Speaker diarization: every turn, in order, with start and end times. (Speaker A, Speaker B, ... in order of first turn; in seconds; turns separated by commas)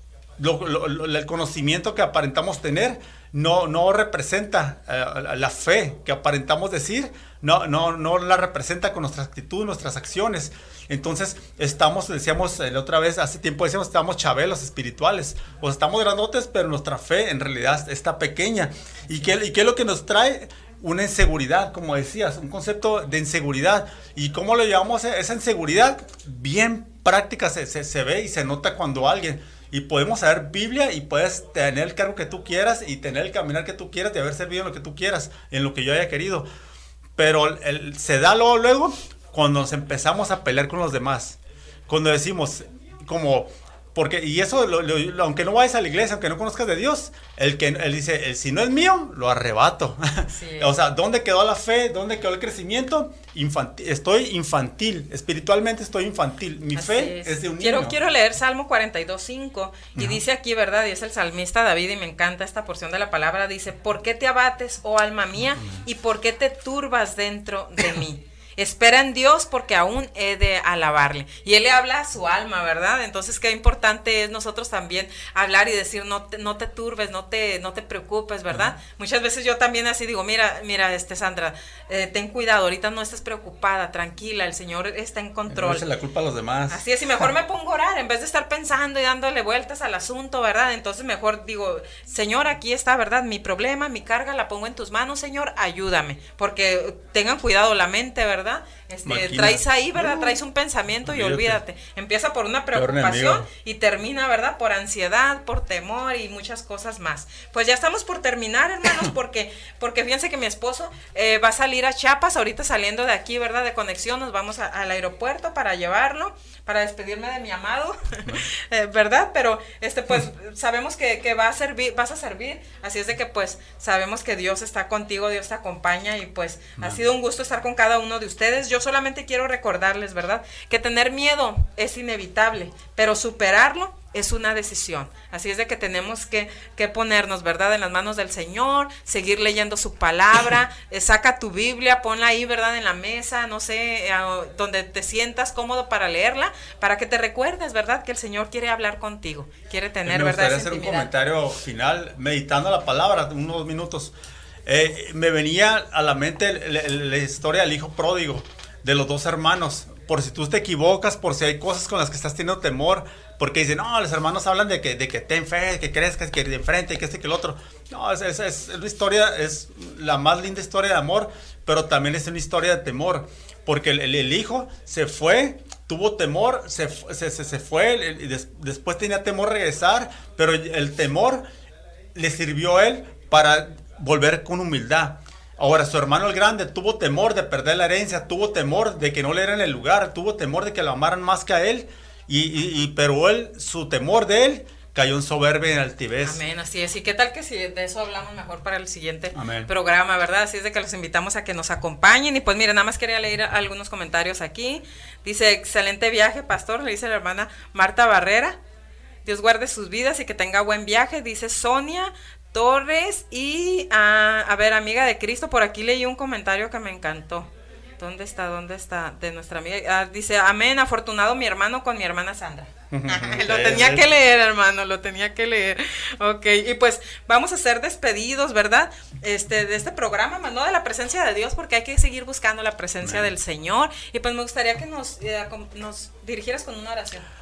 Speaker A: 0.4-36.4, Speaker A: 37.2-58.0, Speaker B: 50.3-50.7, Speaker B: 56.8-85.8, Speaker A: 60.0-60.2, Speaker A: 78.5-78.7, Speaker A: 85.5-86.8, Speaker B: 86.7-151.1, Speaker A: 99.0-100.4, Speaker A: 101.0-101.6, Speaker A: 102.7-103.5, Speaker A: 150.1-154.1, Speaker A: 154.7-181.4, Speaker A: 182.1-196.4, Speaker B: 196.2-208.6, Speaker A: 199.3-199.7, Speaker B: 209.2-237.3, Speaker A: 222.9-224.1, Speaker A: 233.0-233.3